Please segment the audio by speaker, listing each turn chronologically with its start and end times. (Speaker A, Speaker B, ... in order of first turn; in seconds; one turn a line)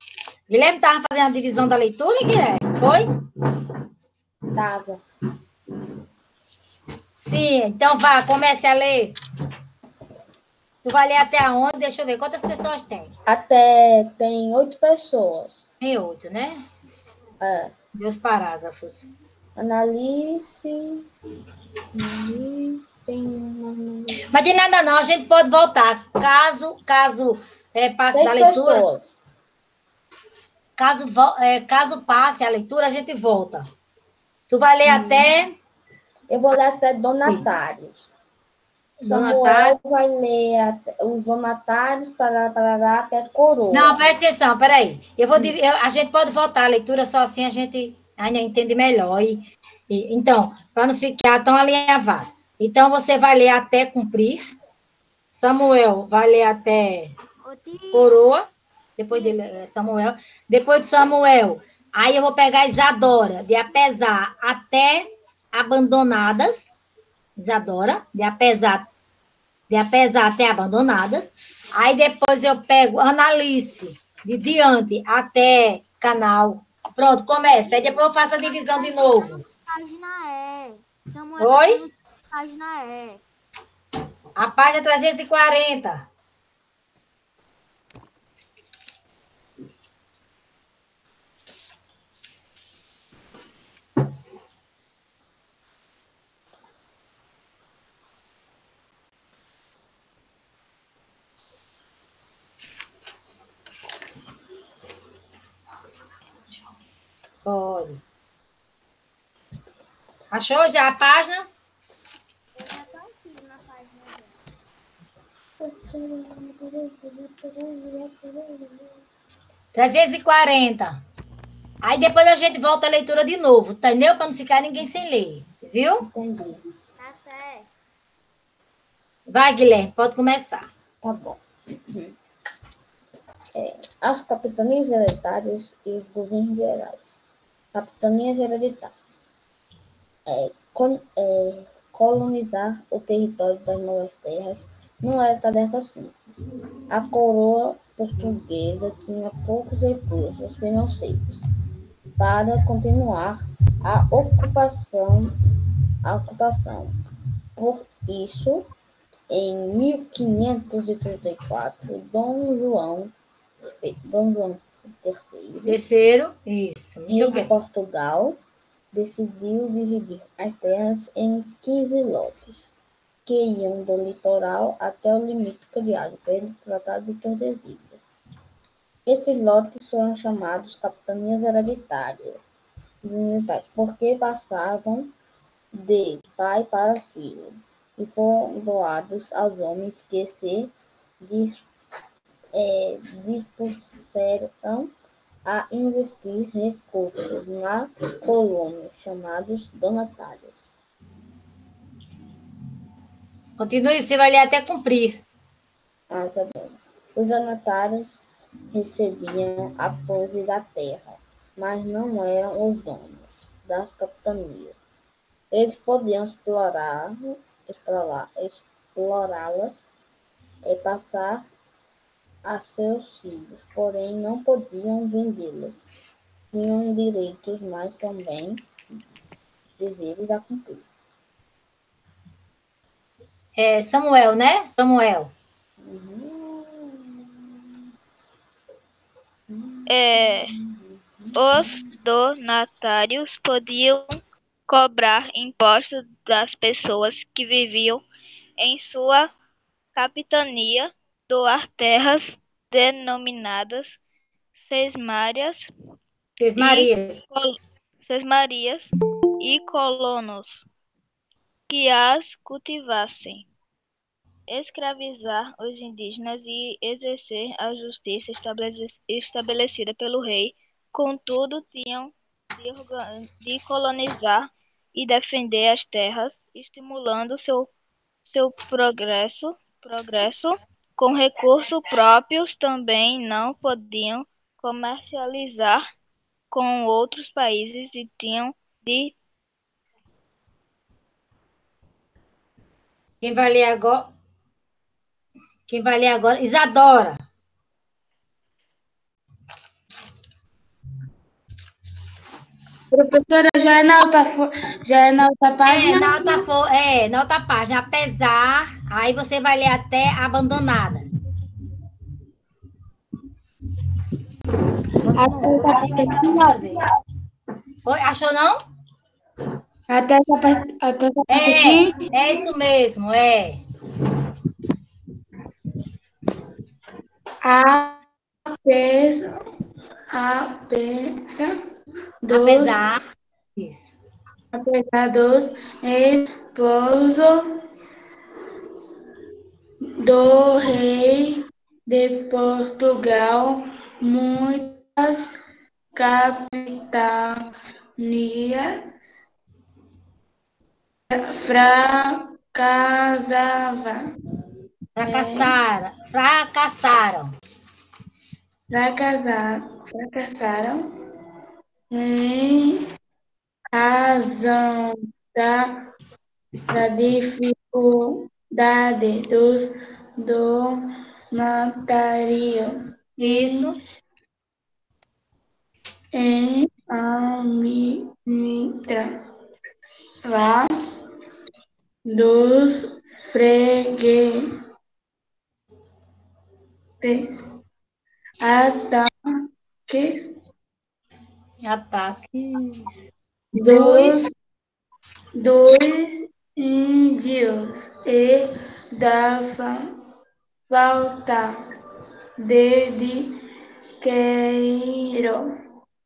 Speaker A: 0.5-3.1
Speaker B: 4.5-5.0
Speaker A: 7.2-9.1
Speaker A: 10.8-13.1
Speaker B: 13.2-15.6
Speaker A: 15.8-16.6
Speaker B: 17.4-17.8
Speaker A: 18.0-19.1
Speaker B: 19.6-21.1
Speaker B: 21.9-24.2
Speaker A: 24.3-28.9
Speaker B: 28.1-29.2
Speaker A: 30.8-33.6
Speaker A: 34.5-35.5
Speaker B: 34.9-35.3
Speaker B: 36.3-38.1
Speaker A: 39.0-39.8
Speaker B: 39.0-44.0
Speaker A: 43.7-54.4
Speaker A: 55.3-57.1
Speaker C: 57.4-58.2
Speaker A: 57.9-58.4
Speaker A: 59.0-66.7
Speaker A: 67.4-68.9
Speaker A: 69.7-79.4
Speaker C: 78.5-83.2
Speaker A: 81.4-81.8
Speaker A: 84.4-86.1
Speaker A: 107.5-108.0
Speaker A: 110.3-111.5
Speaker C: 112.5-114.4
Speaker B: 115.6-119.0
Speaker A: 119.7-121.0
Speaker A: 121.8-126.0
Speaker B: 126.0-126.6
Speaker C: 127.0-127.7
Speaker A: 129.3-130.7
Speaker B: 131.0-132.1
Speaker B: 133.6-137.2
Speaker B: 137.7-139.0
Speaker B: 140.2-146.4
Speaker B: 146.9-151.4
Speaker B: 152.2-155.3
Speaker B: 156.0-157.0
Speaker B: 157.6-158.7
Speaker B: 159.3-163.1
Speaker B: 163.8-165.8
Speaker A: 165.7-167.5
Speaker B: 167.1-168.4
Speaker B: 168.9-172.6
Speaker B: 173.2-178.0
Speaker B: 179.1-182.4
Speaker B: 183.0-185.1
Speaker B: 185.7-191.7
Speaker B: 192.5-194.9
Speaker B: 195.5-200.6
Speaker A: 203.6-205.2
Speaker B: 206.1-214.8
Speaker B: 215.5-219.8
Speaker B: 220.6-221.5
Speaker B: 222.4-225.8
Speaker B: 226.5-229.0
Speaker B: 229.8-230.9
Speaker A: 233.6-235.3
Speaker B: 235.8-237.6
Speaker B: 239.5-241.6
Speaker D: 239.9-240.5
Speaker D: 241.3-248.1
Speaker D: 248.6-249.3
Speaker D: 249.9-254.0
Speaker D: 254.6-255.7
Speaker A: 256.4-257.2
Speaker D: 256.6-260.6
Speaker D: 261.7-263.5
Speaker D: 264.5-277.7
Speaker D: 278.3-285.8
Speaker D: 286.5-289.2
Speaker A: 293.2-294.1
Speaker A: 295.7-297.2
Speaker E: 302.9-306.4
Speaker A: 305.6-311.1
Speaker A: 315.0-316.8
Speaker E: 315.1-316.8
Speaker A: 317.9-318.6
Speaker E: 319.9-322.2
Speaker A: 321.3-323.6
Speaker E: 327.4-329.3
Speaker E: 330.1-331.5
Speaker E: 332.2-332.9
Speaker A: 332.3-333.0
Speaker A: 333.6-333.9
Speaker E: 334.5-337.5
Speaker E: 340.0-345.3
Speaker E: 345.9-347.4
Speaker E: 348.0-349.1
Speaker E: 351.1-354.0
Speaker A: 355.0-357.3
Speaker E: 355.0-355.5
Speaker E: 358.7-360.8
Speaker E: 361.9-362.8
Speaker E: 363.7-365.8
Speaker E: 366.7-370.8
Speaker E: 371.3-373.8
Speaker A: 373.2-373.8
Speaker E: 376.1-379.1
Speaker E: 380.2-380.7
Speaker E: 382.1-384.4
Speaker E: 387.0-387.6
Speaker E: 388.4-389.1
Speaker E: 389.9-390.4
Speaker A: 391.6-392.9
Speaker E: 393.5-394.3
Speaker A: 393.6-394.2
Speaker E: 395.4-399.8
Speaker E: 400.7-401.5
Speaker E: 402.4-403.3
Speaker E: 404.0-405.4